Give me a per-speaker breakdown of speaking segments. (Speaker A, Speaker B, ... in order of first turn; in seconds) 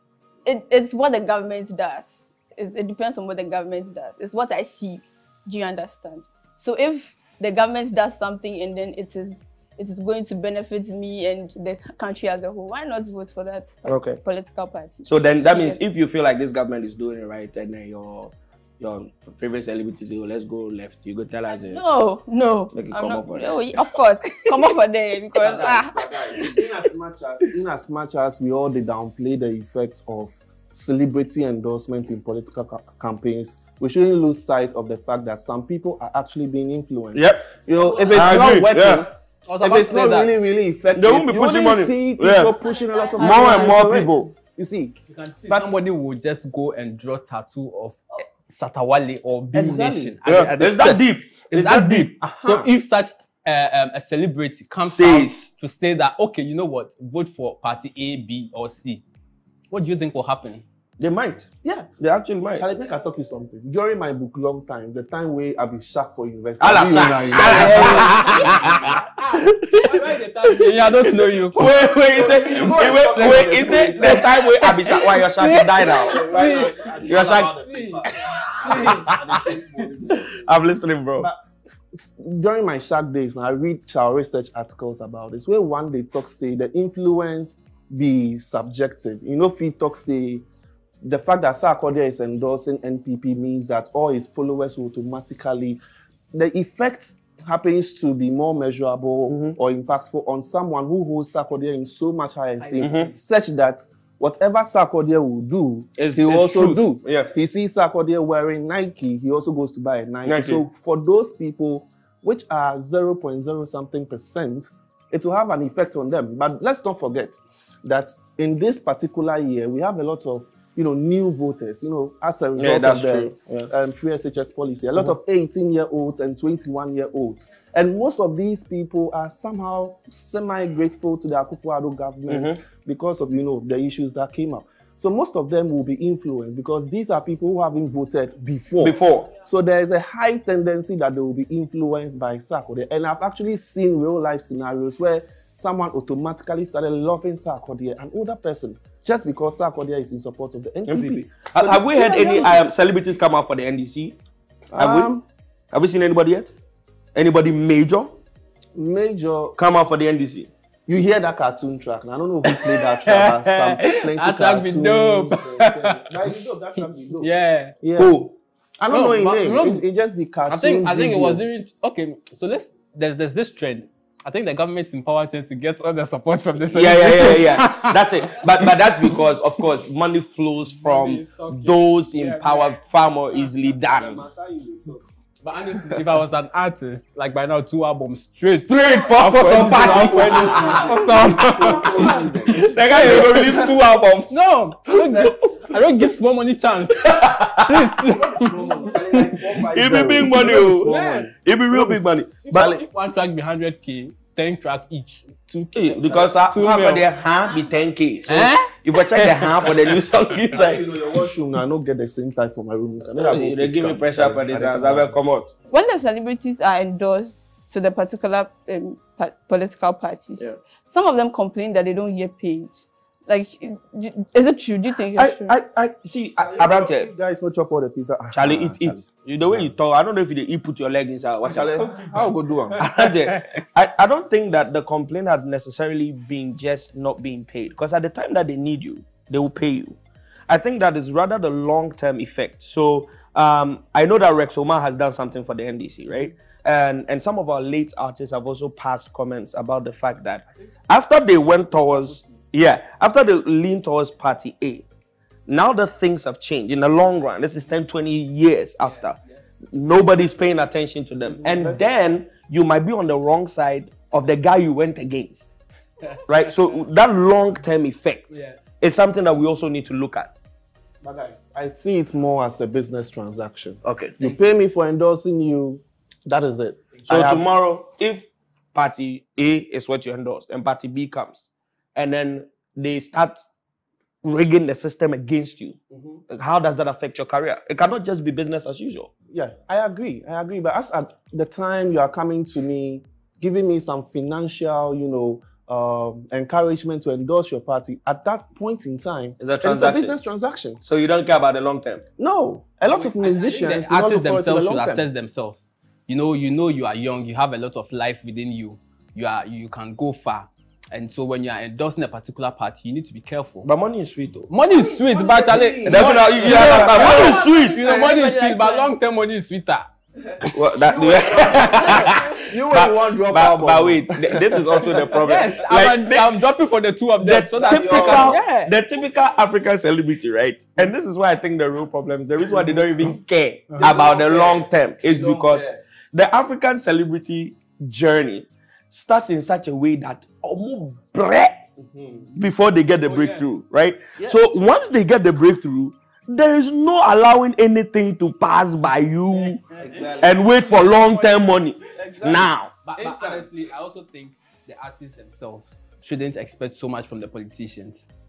Speaker A: 0.4-15.8, 21.5-26.0, 42.5-43.9, 207.4-207.9, 215.7-225.6, 316.9-318.9, 321.6-322.5
Speaker B: 13.8-14.2, 15.0-21.8, 22.7-24.7, 37.1-37.5, 38.1-39.0, 40.9-42.5, 43.1-44.3, 49.5-52.1, 54.8-55.5, 61.0-62.6, 66.6-76.4, 77.0-77.5, 78.3-79.4, 80.1-81.3, 99.3-99.6, 102.8-103.1, 106.0-107.3, 110.2-110.6, 122.5-123.7, 132.3-132.6, 138.8-139.3, 150.9-154.2, 154.8-155.1, 155.7-156.5, 157.1-158.2, 159.6-160.5, 168.0-168.3, 176.7-184.2, 188.5-195.5, 197.0-197.9, 199.7-202.7, 205.7-210.8, 213.1-215.5, 225.1-227.1, 228.3-231.7, 232.8-240.0, 240.5-254.8, 255.5-259.2, 259.7-265.5, 266.3-270.3, 273.8-274.2, 277.1-283.4, 284.2-289.1, 299.4-300.1, 300.8-302.0, 313.6-314.5, 315.9-317.8, 320.5-326.4, 327.2-341.6, 342.3-349.7, 350.2-352.7
Speaker C: 25.4-39.1, 39.6-45.0, 45.5-45.8, 49.5-50.1, 52.2-52.7, 62.5-68.7, 72.0-74.4, 75.8-80.5, 81.9-90.4, 91.0-95.8, 96.3-152.7, 154.7-155.2, 158.7-159.6, 160.9-167.3, 167.8-168.2, 168.8-171.4, 183.6-185.1, 189.6-193.7, 194.9-195.3, 198.0-202.0, 202.5-202.8, 210.5-215.1, 226.4-229.7, 231.4-232.8, 261.3-261.8, 271.0-277.4, 289.3-300.8, 302.2-305.0, 314.7-317.4, 320.8-325.2, 327.6-328.4, 332.5-332.9, 333.8-335.8, 341.8-342.3, 349.8-350.6, 351.8-353.5
Speaker D: 37.7-40.3, 45.1-59.0, 59.7-60.6, 67.3-71.7, 74.0-79.1, 102.6-103.1, 162.4-166.1, 167.2-167.7, 168.9-169.8, 170.5-179.6, 180.7-182.8, 185.4-193.4, 194.3-199.4, 200.4-201.3, 202.4-207.0, 208.3-210.4, 231.7-233.4, 251.7-252.3, 258.8-259.4, 266.0-266.8, 268.3-268.6, 302.8-313.7, 314.5-319.9, 325.2-328.7, 343.0-343.4, 349.5-350.1, 350.7-351.5, 352.8-358.1